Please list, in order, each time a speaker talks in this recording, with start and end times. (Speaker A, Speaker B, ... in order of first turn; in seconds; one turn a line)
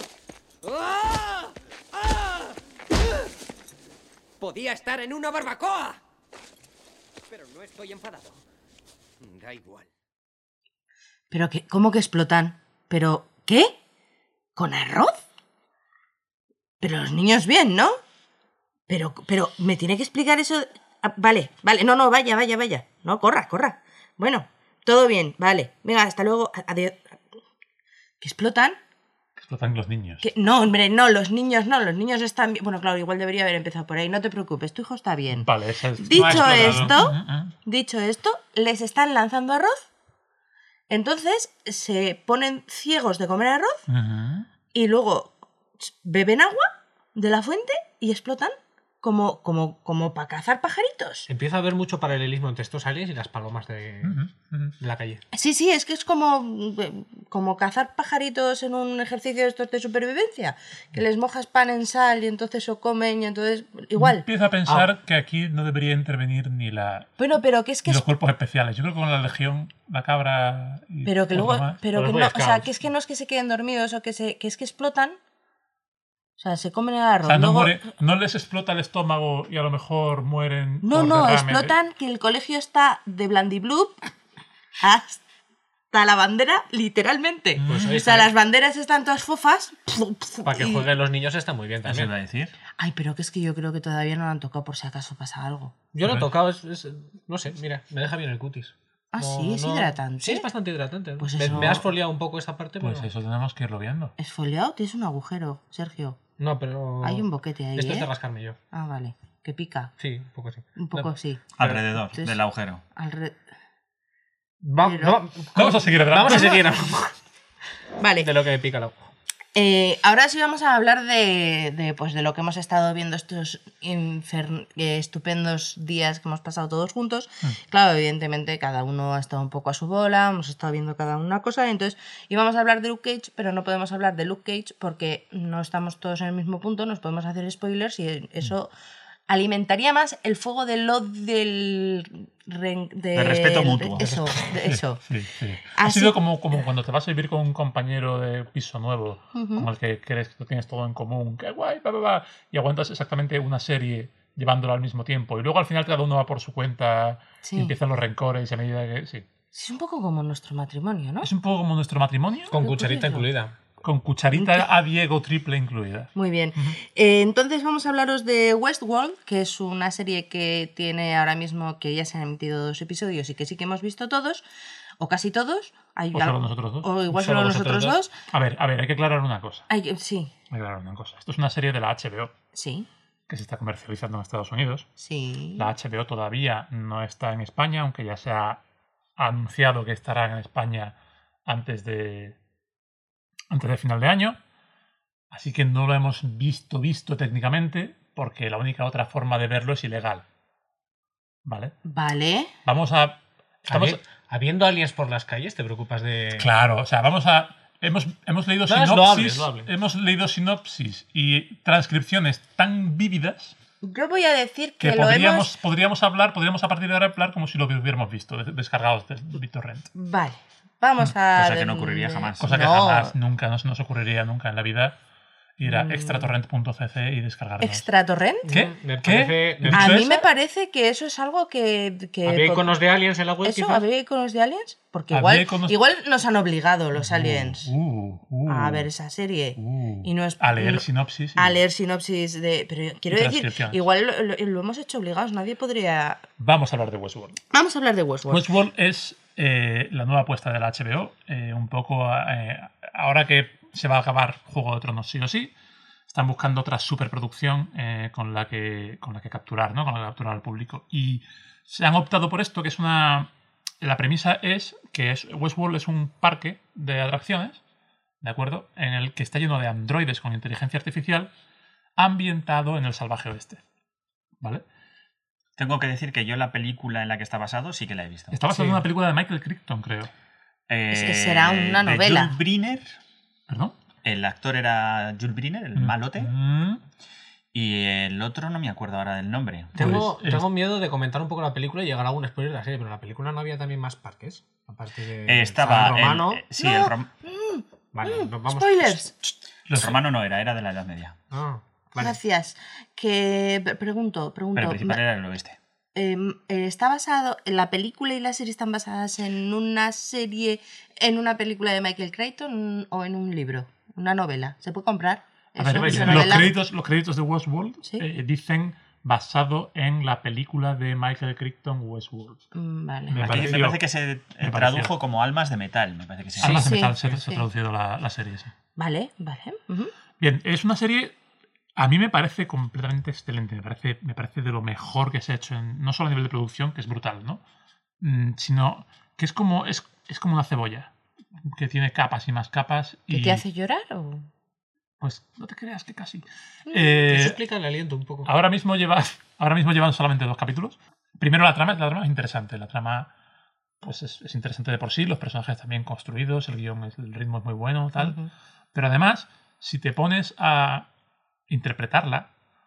Speaker A: 0.6-3.3
Speaker A: 4.4-6.0
Speaker A: 7.3-8.4
Speaker A: 9.2-9.9
Speaker B: 11.3-13.8
Speaker B: 14.6-15.2
Speaker B: 16.8-18.0
Speaker B: 18.9-27.2
Speaker B: 28.2-28.8
Speaker C: 29.4-30.2
Speaker B: 30.2-39.9
Speaker C: 35.4-37.5
Speaker D: 36.1-37.0
Speaker B: 40.9-43.8
Speaker C: 43.9-44.5
Speaker B: 44.7-51.3
Speaker D: 51.3-54.2
Speaker C: 54.0-54.8
Speaker D: 54.8-55.2
Speaker B: 55.3-64.2
Speaker C: 64.0-67.2
Speaker B: 67.2-68.0
Speaker C: 67.9-71.8
Speaker B: 71.0-75.2
Speaker D: 71.9-72.7
Speaker B: 76.4-77.8
Speaker C: 77.2-81.8
Speaker B: 80.8-84.0
Speaker B: 84.8-85.2
Speaker B: 85.9-90.9
Speaker C: 87.6-88.0
Speaker D: 87.7-88.3
Speaker D: 90.5-92.1
Speaker E: 91.8-92.6
Speaker B: 92.8-95.7
Speaker D: 95.9-103.1
Speaker C: 96.0-96.3
Speaker B: 99.1-100.5
Speaker B: 101.2-101.8
Speaker C: 101.4-101.8
Speaker C: 102.8-104.2
Speaker B: 104.2-106.2
Speaker D: 106.4-108.6
Speaker B: 107.0-108.1
Speaker B: 108.7-109.9
Speaker D: 110.0-111.1
Speaker B: 110.8-112.4
Speaker E: 111.6-112.8
Speaker B: 112.9-113.4
Speaker D: 114.6-117.2
Speaker B: 114.8-115.2
Speaker C: 115.5-116.7
Speaker B: 118.0-118.3
Speaker D: 118.2-119.1
Speaker B: 119.5-138.7
Speaker B: 139.3-145.0
Speaker E: 143.1-144.0
Speaker C: 144.5-159.2
Speaker B: 145.7-146.2
Speaker B: 149.3-149.7
Speaker B: 157.4-157.8
Speaker B: 159.5-161.3
Speaker C: 161.2-162.6
Speaker D: 162.5-163.5
Speaker B: 162.5-163.3
Speaker C: 163.8-166.8
Speaker B: 164.3-164.7
Speaker B: 166.2-174.4
Speaker B: 175.0-178.1
Speaker C: 176.1-177.0
Speaker D: 177.1-178.0
Speaker C: 178.3-179.7
Speaker B: 179.7-180.3
Speaker C: 180.5-182.3
Speaker B: 182.5-182.9
Speaker C: 183.3-184.9
Speaker B: 185.0-185.7
Speaker C: 185.6-188.6
Speaker C: 189.2-190.9
Speaker C: 191.5-192.4
Speaker C: 193.5-194.4
Speaker C: 195.3-200.2
Speaker C: 201.4-201.8
Speaker B: 201.8-202.5
Speaker C: 202.7-204.0
Speaker D: 203.7-206.5
Speaker C: 206.4-213.6
Speaker D: 208.7-209.7
Speaker B: 213.8-215.5
Speaker C: 214.8-219.9
Speaker B: 219.9-223.1
Speaker E: 221.3-222.6
Speaker C: 222.4-224.9
Speaker C: 225.6-227.9
Speaker B: 225.6-226.3
Speaker B: 227.6-228.5
Speaker D: 228.5-230.0
Speaker C: 228.5-230.2
Speaker B: 229.7-232.8
Speaker D: 232.3-233.8
Speaker B: 233.4-237.7
Speaker C: 235.1-235.8
Speaker C: 236.9-238.9
Speaker B: 238.5-240.8
Speaker C: 239.6-241.6
Speaker B: 241.4-246.2
Speaker C: 243.1-243.8
Speaker C: 246.4-247.4
Speaker B: 247.5-248.5
Speaker C: 248.3-255.5
Speaker C: 256.1-263.3
Speaker C: 263.8-267.6
Speaker C: 268.2-271.3
Speaker C: 272.0-273.6
Speaker E: 275.6-278.4
Speaker C: 278.3-280.1
Speaker D: 278.6-278.8
Speaker E: 280.7-282.9
Speaker B: 280.9-282.4
Speaker C: 283.5-283.8
Speaker E: 284.0-286.3
Speaker C: 285.8-286.8
Speaker E: 287.5-290.1
Speaker C: 289.8-290.5
Speaker D: 289.8-296.4
Speaker E: 295.3-297.1
Speaker B: 296.6-299.2
Speaker D: 297.9-299.0
Speaker C: 299.7-300.0
Speaker E: 299.7-301.2
Speaker D: 301.3-302.2
Speaker B: 302.0-305.0
Speaker E: 304.6-305.6
Speaker B: 305.9-316.5
Speaker C: 315.6-322.4
Speaker D: 315.7-316.5
Speaker B: 322.5-323.2
Speaker C: 323.1-323.8
Speaker E: 323.2-326.6
Speaker D: 323.2-323.6
Speaker C: 324.4-324.9
Speaker C: 326.4-328.5
Speaker D: 326.4-327.2
Speaker B: 326.6-327.4
Speaker B: 328.8-329.9
Speaker C: 330.2-331.1
Speaker C: 331.8-337.4
Speaker C: 338.0-340.9
Speaker C: 341.4-343.4
Speaker B: 343.1-344.3
Speaker C: 345.0-347.4
Speaker D: 347.1-348.3
Speaker C: 348.2-353.1
Speaker C: 353.8-358.2
Speaker B: 358.0-358.3
Speaker C: 358.7-360.9
Speaker C: 361.5-362.3